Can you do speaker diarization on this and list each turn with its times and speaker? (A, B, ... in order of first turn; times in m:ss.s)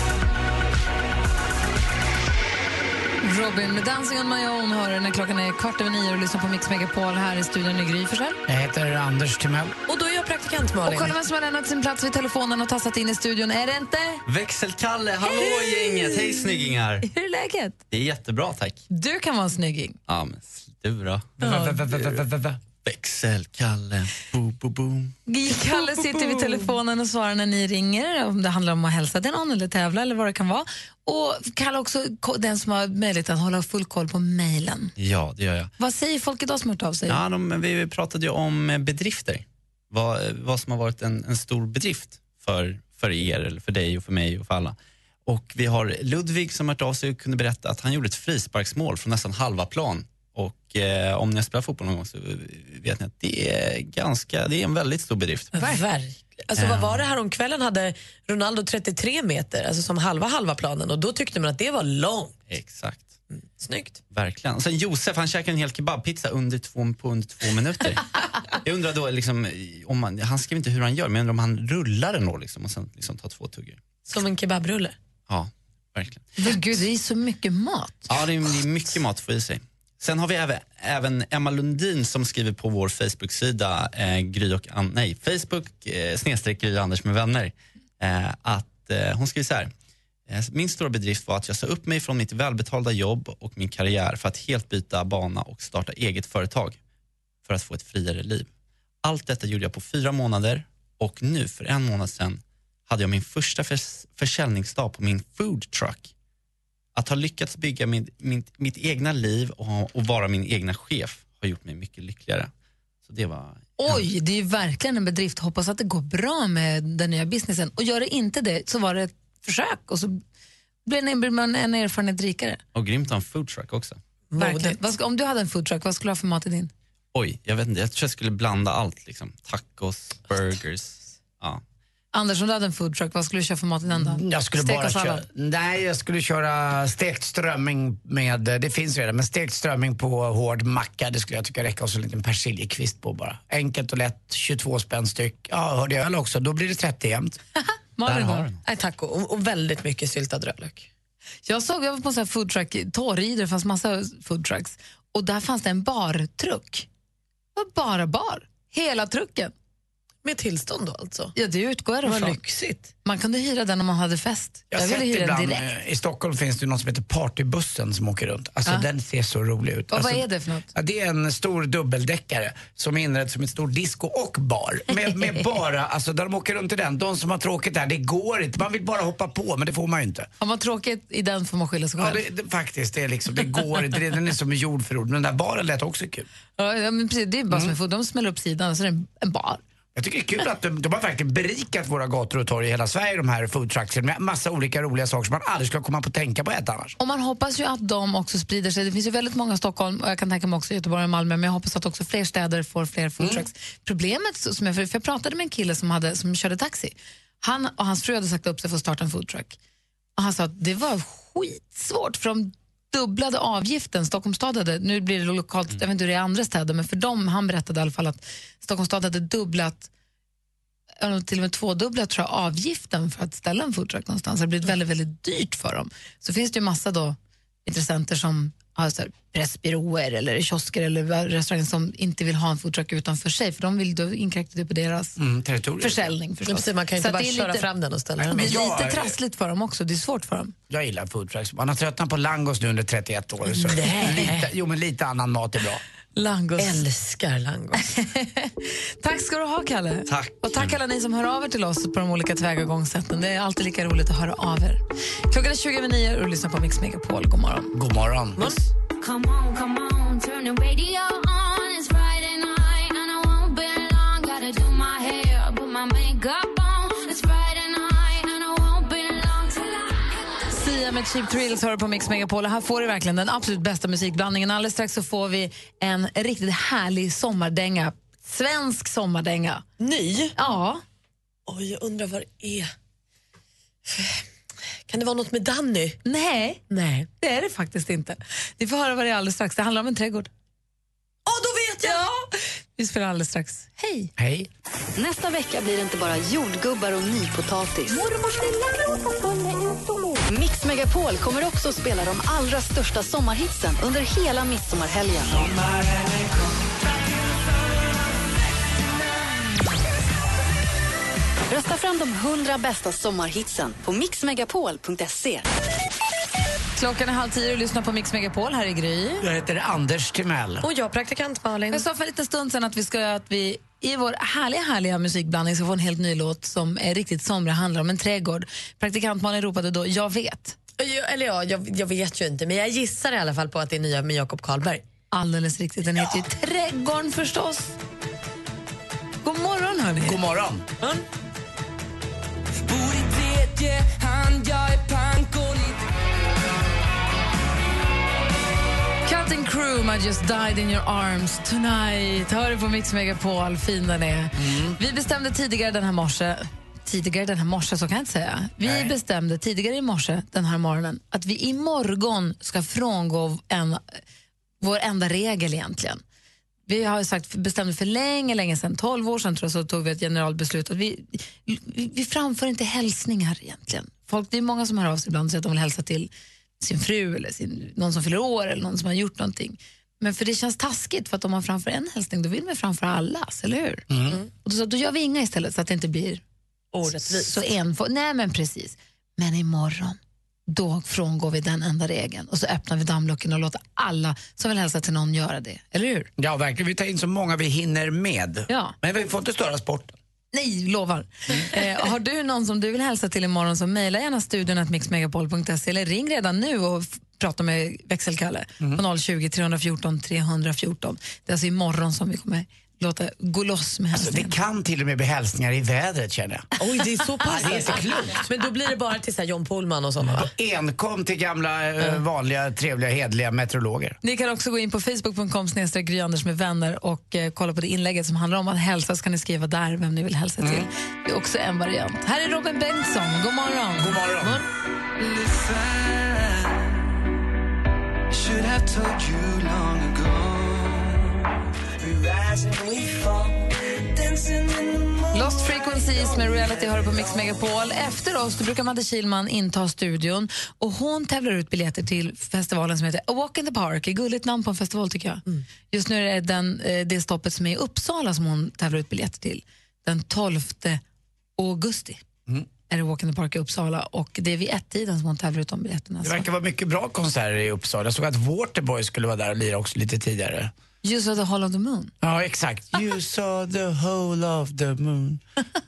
0:03.2-0:08.4 A
0:08.5-0:09.7 B
0:09.9-0:11.1 C
0:10.8-0:14.2 A
0:14.2-0:17.0 D
0:15.2-0:16.4 A
0:17.0-0:17.8 A
0:17.9-0:18.8 D
0:18.9-0:20.0 A
0:20.1-0:21.4 D
0:21.4-0:22.6 B
0:21.4-0:21.8 A
0:22.8-0:25.1 D
0:25.3-0:34.9 A
0:25.8-0:26.5 C
0:35.0-0:35.7 D
0:35.8-0:37.2 A
0:37.1-0:55.5 D
0:55.5-1:02.4 C
0:56.6-0:56.9 D
1:02.5-1:03.1 D
1:03.6-1:04.0 C
1:04.1-1:08.0 D
1:08.6-1:13.8 D
1:14.1-1:15.0 C
1:15.3-1:16.6 D
1:16.4-1:18.1 A
1:18.1-1:29.7 D
1:30.3-1:36.8 D
1:37.4-1:38.5 D
1:39.0-1:46.1 D
1:46.9-1:52.5 D
1:53.0-1:54.0 D
1:53.8-2:00.2 A
2:00.8-2:02.6 A
2:02.7-2:04.0 D
2:04.3-2:04.8 C
2:04.4-2:06.7 A
2:07.1-2:11.6 D
2:12.1-2:15.2 A
2:13.9-2:27.4 B
2:28.0-2:28.5 A
2:28.0-2:28.5 D
2:28.6-2:30.9 C
2:31.4-2:36.9 A
2:37.6-2:39.5 A
2:40.2-2:41.3 C
2:41.3-2:45.6 A
2:42.0-2:42.9 C
2:44.7-3:00.3 B
2:49.9-2:50.7 A
3:00.4-3:02.2 A
3:02.0-3:06.3 B
3:06.6-3:09.6 A
3:09.9-3:16.9 B
3:17.0-3:29.6 A
3:23.2-3:23.4 B
3:30.2-3:39.9 A
3:41.0-3:55.2 A
3:55.2-3:56.1 B
3:55.8-3:57.7 A
3:56.4-3:58.6 C
3:58.2-4:00.5 A
3:58.3-3:59.1 B
4:00.7-4:05.8 B
4:03.6-4:04.5 C
4:03.9-4:04.3 A
4:06.2-4:06.8 A
4:06.6-4:07.8 C
4:07.8-4:17.7 A
4:17.7-4:18.5 B
4:19.0-4:30.4 E
4:30.5-4:39.6 A
4:39.8-4:40.3 C
4:40.4-4:40.8 A
4:41.5-4:42.7 C
4:43.9-4:44.2 C
4:44.9-4:46.0 C
4:46.0-4:46.6 A
4:46.7-4:47.1 C
4:47.2-4:50.3 A
4:51.3-4:52.0 C
4:51.8-4:52.2 A
4:52.8-4:54.1 A
4:54.2-4:54.5 B
4:55.0-4:58.0 F
5:00.3-5:05.5 F
5:05.3-5:07.1 G
5:11.5-5:15.5 F
5:16.8-5:19.2 A
5:19.2-5:20.6 B
5:20.6-5:21.8 C
5:21.7-5:30.6 A
5:30.8-5:34.8 C
5:35.1-5:37.8 A
5:39.2-5:40.2 A
5:40.0-5:40.6 B
5:49.0-6:04.0 A
5:54.4-5:54.8 B
5:58.6-5:58.9 B
6:04.6-6:06.0 A
6:06.7-6:16.1 A
6:16.6-6:26.2 A
6:23.9-6:24.2 B
6:26.7-6:27.4 C
6:26.9-6:36.1 A
6:36.2-6:39.9 B
6:38.5-6:38.7 A
6:40.3-6:54.3 A
6:53.9-6:56.5 B
6:56.6-7:00.3 C
6:57.3-6:58.2 B
7:00.0-7:04.0 B
7:04.0-7:14.4 A
7:10.4-7:10.7 B
7:13.8-7:14.4 B
7:15.0-7:16.7 G
7:18.1-7:21.2 G
7:21.8-7:27.1 G
7:25.1-7:40.8 A
7:41.4-7:42.0 A
7:42.7-7:46.2 A
7:46.0-7:50.5 B
7:50.8-7:51.9 A
7:52.0-7:55.2 B